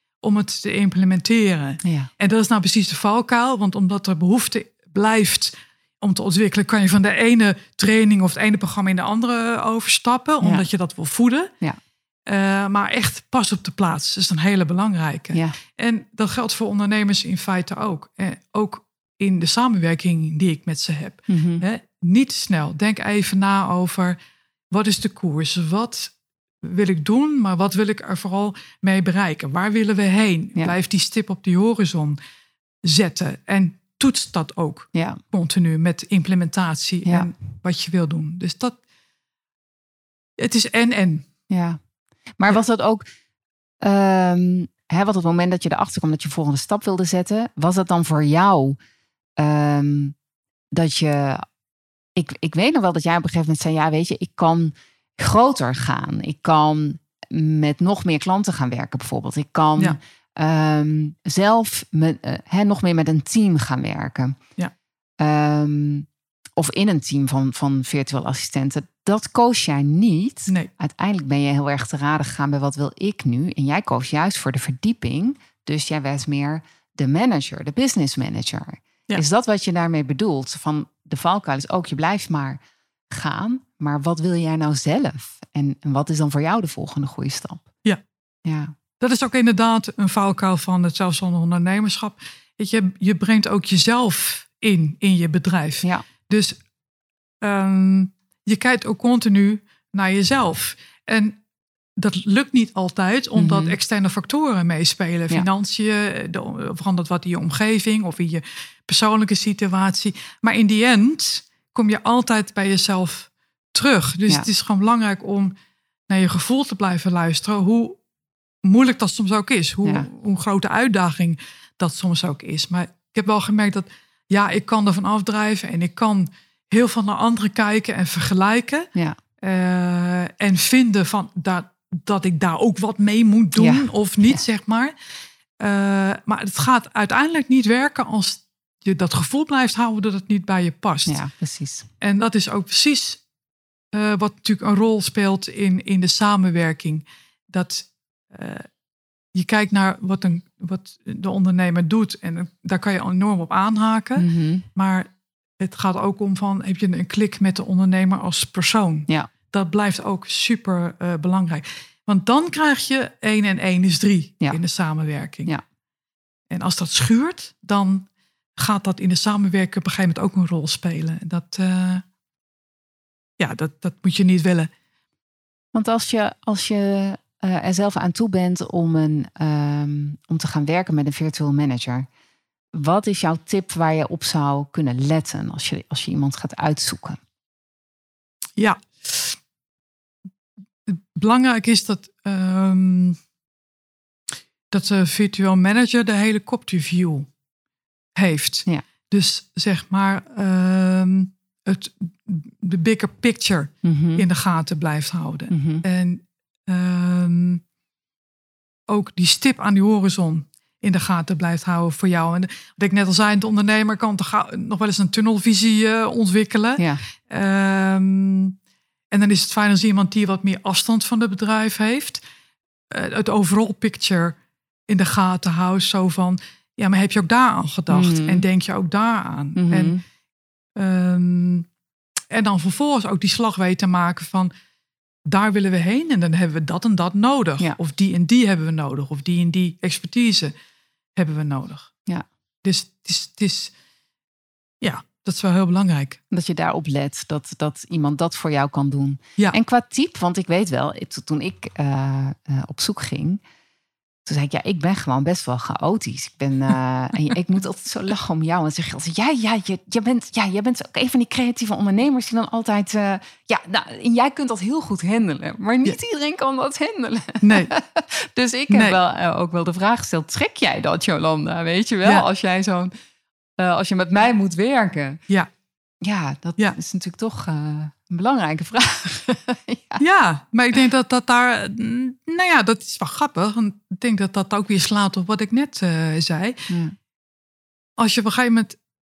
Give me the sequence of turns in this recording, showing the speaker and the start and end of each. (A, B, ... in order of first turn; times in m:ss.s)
0:00.2-0:11.5 A
0:01.8-0:02.1 B
0:12.3-0:24.2 A
0:21.3-0:21.6 B
0:24.7-0:32.2 A
0:32.8-0:38.8 A
0:34.9-0:35.2 B
0:40.4-0:41.3 A
0:41.5-0:41.8 B
0:42.4-0:43.0 B
0:43.8-0:48.8 B
0:49.4-0:50.2 B
0:50.7-0:51.4 B
0:52.2-1:04.4 B
1:05.2-1:22.6 B
1:23.1-1:27.7 B
1:28.4-1:28.7 B
1:29.0-1:36.6 A
1:37.4-1:41.4 A
1:42.0-1:55.5 A
1:43.4-1:43.8 B
1:56.1-1:58.0 A
1:58.6-2:08.9 A
2:09.4-2:14.9 A
2:13.6-2:14.4 B
2:15.6-2:21.2 A
2:21.1-2:21.9 B
2:22.0-2:23.2 A
2:23.9-2:28.7 A
2:29.3-2:45.5 A
2:34.2-2:34.6 B
2:46.5-2:52.0 A
2:53.4-2:54.7 A
2:55.7-3:02.1 B
3:02.7-3:07.2 B
3:08.6-3:09.4 A
3:10.9-3:13.2 A
3:14.7-3:17.3 A
3:18.2-3:27.6 A
3:23.8-3:24.3 B
3:25.5-3:25.8 B
3:28.9-3:38.6 A
3:39.1-3:42.2 A
3:42.9-3:44.4 A
3:44.9-3:49.9 A
3:47.9-3:48.4 B
3:49.6-3:50.0 B
3:50.8-3:51.7 A
3:52.3-3:54.5 A
3:55.3-4:00.5 A
4:01.2-4:01.9 A
4:02.6-4:03.7 A
4:04.8-4:06.2 A
4:06.3-4:13.4 B
4:14.3-4:32.9 B
4:27.4-4:27.7 A
4:28.7-4:29.0 A
4:33.6-4:35.2 B
4:36.0-4:40.0 B
4:40.0-4:46.6 A
4:46.7-4:47.0 B
4:48.0-4:48.8 A